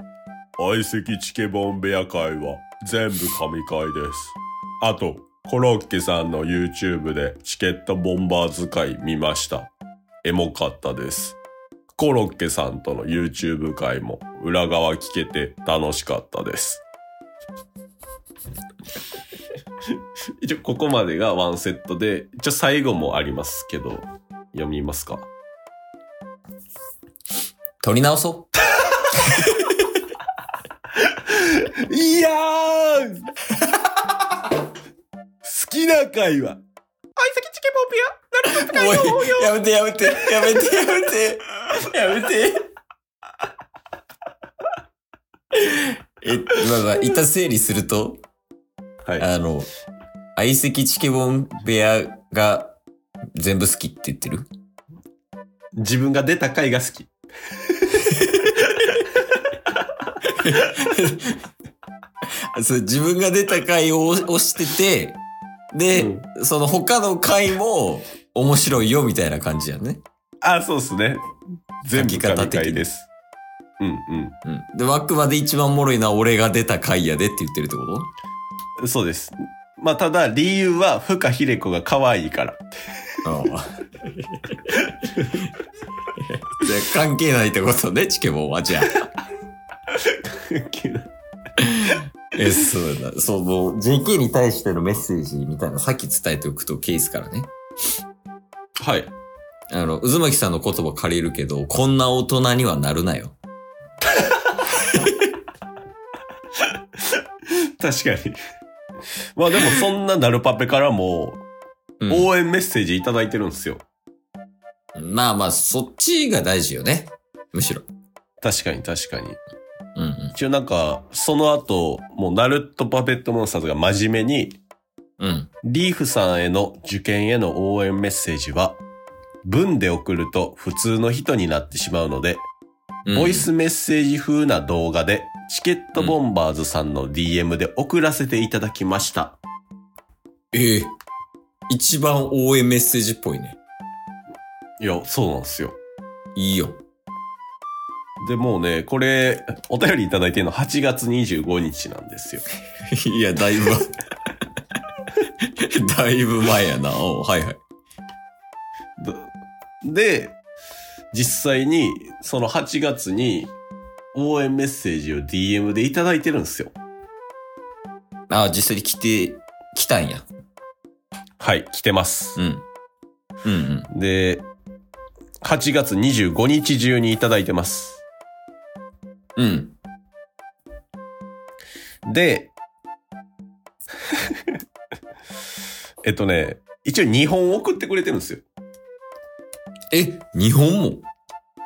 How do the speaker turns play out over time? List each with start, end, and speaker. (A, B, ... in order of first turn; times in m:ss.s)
0:00.6-0:09.7 A
0:10.2-0:11.4 A
0:11.9-0:16.8 A
0:20.4-0:25.3 A
0:27.8-0:28.5 B
0:29.1-0:29.8 B
0:31.0-0:33.3 A
0:35.4-0:36.6 A
0:37.2-0:39.3 C
0:38.4-0:42.7 B
0:45.5-0:48.2 B
0:49.2-0:49.7 B
0:50.4-0:52.8 B
0:53.3-0:54.5 B
0:55.8-0:57.1 A
0:57.7-0:59.0 A
1:00.2-1:01.4 B
1:02.5-1:05.2 B
1:05.7-1:10.0 B
1:05.9-1:06.2 A
1:10.4-1:11.2 A
1:11.8-1:13.1 A
1:11.9-1:12.8 B
1:13.8-1:14.3 A
1:14.4-1:18.1 B
1:18.8-1:22.6 A
1:23.2-1:24.7 B
1:24.7-1:25.5 A
1:26.2-1:29.0 B
1:29.9-1:31.1 A
1:31.6-1:37.5 B
1:38.8-1:39.1 A
1:39.7-1:43.4 B
1:44.8-1:45.3 B
1:46.6-1:48.4 A
1:49.4-1:51.4 A
1:52.0-1:52.3 B
1:52.1-1:53.8 A
1:54.9-1:57.8 B
1:58.4-1:59.4 A
2:00.0-2:00.3 B
2:00.3-2:04.6 A
2:05.2-2:05.5 B
2:05.6-2:08.8 A
2:09.4-2:12.4 A
2:13.0-2:13.4 B
2:13.1-2:19.4 A
2:20.5-2:20.9 B
2:21.7-2:23.6 B
2:24.8-2:25.8 A
2:26.3-2:26.8 B
2:28.2-2:32.4 A
2:32.9-2:34.0 B
2:35.4-2:37.6 B
2:39.0-2:39.2 A
2:39.8-2:40.4 A
2:41.1-2:43.5 A
2:44.1-2:46.7 A
2:48.3-2:50.2 B
2:51.4-2:52.4 A
2:52.4-2:52.6 B
2:53.4-2:53.9 B
2:53.9-2:54.4 A
2:55.4-2:58.0 A
2:59.4-2:59.8 B
3:02.0-3:02.5 A
3:04.1-3:04.4 A
3:06.0-3:08.4 A
3:09.9-3:11.0 B